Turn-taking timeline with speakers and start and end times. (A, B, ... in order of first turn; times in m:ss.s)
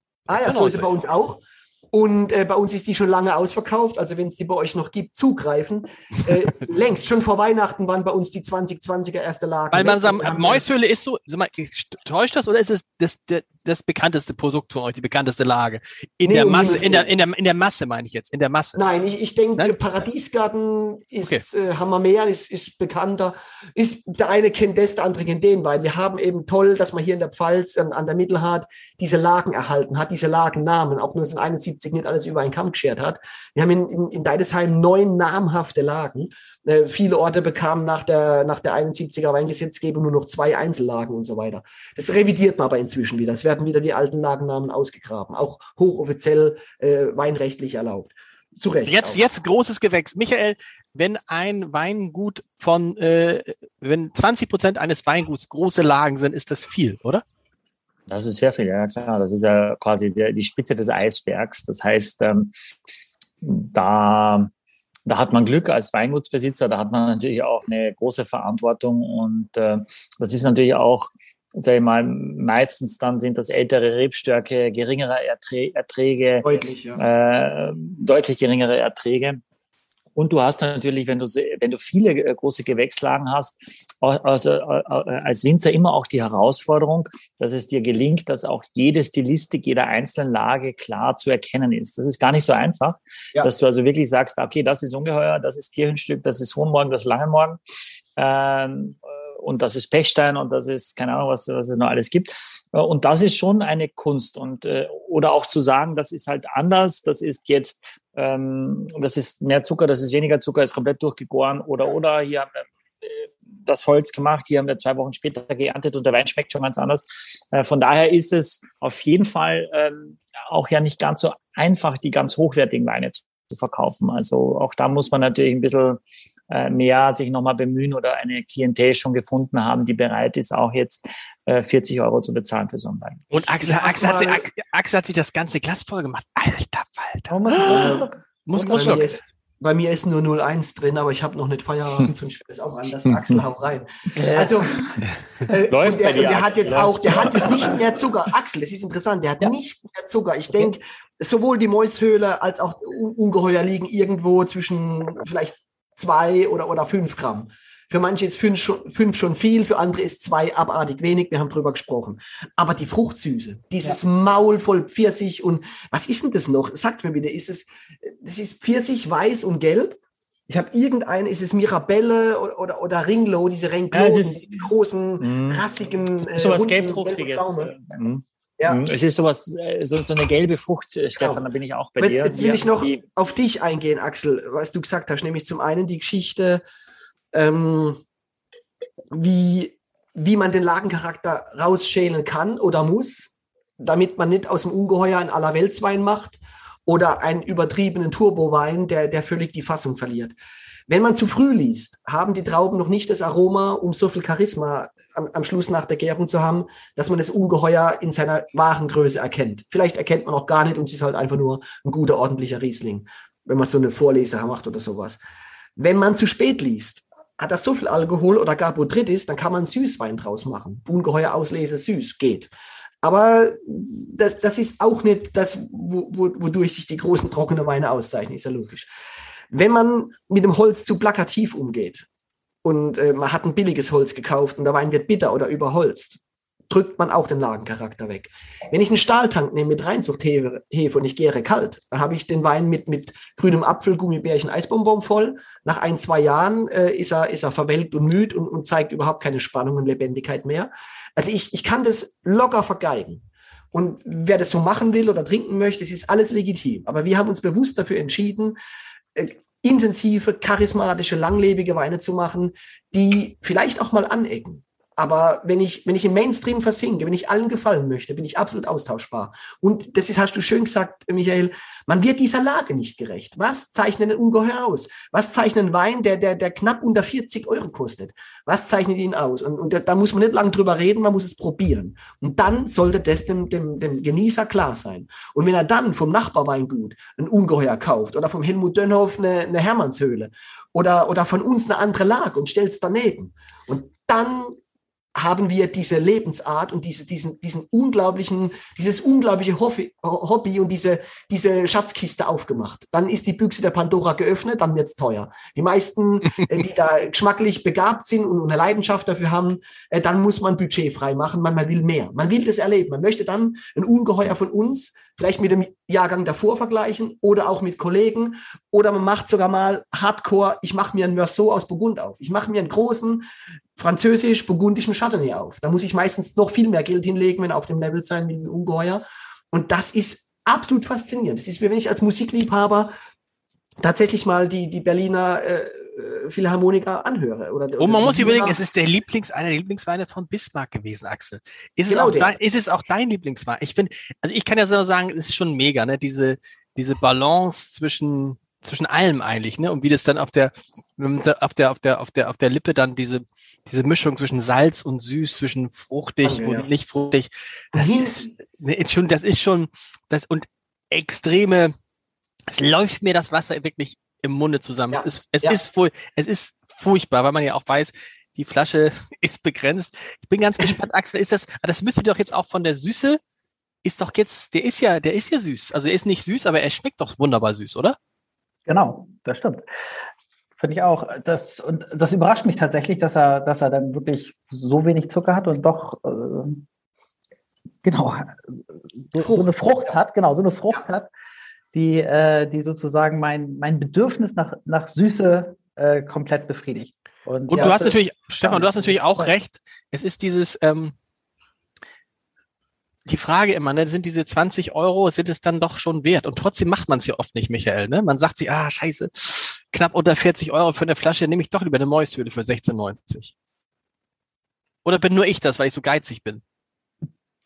0:00.3-0:10.6 A
0:00.4-0:00.9 B
0:09.7-0:18.8 B
0:16.2-0:17.1 A
0:18.8-0:49.2 A
0:48.9-0:57.2 B
0:58.1-1:02.5 C
1:03.4-1:04.5 C
1:05.1-1:16.5 C
1:16.4-1:17.0 A
1:17.0-1:19.4 C
1:20.2-1:37.6 C
1:38.2-2:13.3 C
2:13.3-2:19.2 B
2:13.6-2:14.4 A
2:17.3-2:18.2 D
2:18.5-2:24.9 A
2:23.1-2:23.4 C
2:24.2-2:25.0 D
2:25.4-2:57.7 A
2:25.7-2:27.8 C
2:53.9-2:54.7 C
2:55.2-2:55.7 C
2:56.3-3:03.0 C
3:01.2-3:01.4 A
3:02.0-3:06.6 A
3:07.3-3:08.0 A
3:09.1-3:20.4 A
3:20.9-3:35.2 A
3:35.8-3:42.5 A
3:43.0-3:48.9 A
3:49.5-3:52.1 A
3:52.6-3:56.2 A
3:56.7-4:18.6 A
4:19.2-4:54.6 A
4:55.2-5:23.2 A
5:23.8-5:32.9 A
5:33.8-5:38.6 A
5:37.8-6:01.7 B
5:41.9-5:42.4 A
5:56.2-5:56.7 A
5:57.7-5:58.3 A
6:02.5-6:13.2 B
6:04.9-6:05.6 A
6:13.8-6:18.0 B
6:18.7-6:19.6 D
6:20.6-6:26.6 D
6:27.8-6:31.1 D
6:29.2-6:29.9 A
6:31.7-6:39.3 D
6:37.5-6:41.0 B
6:43.1-6:53.3 B
6:54.8-6:56.4 B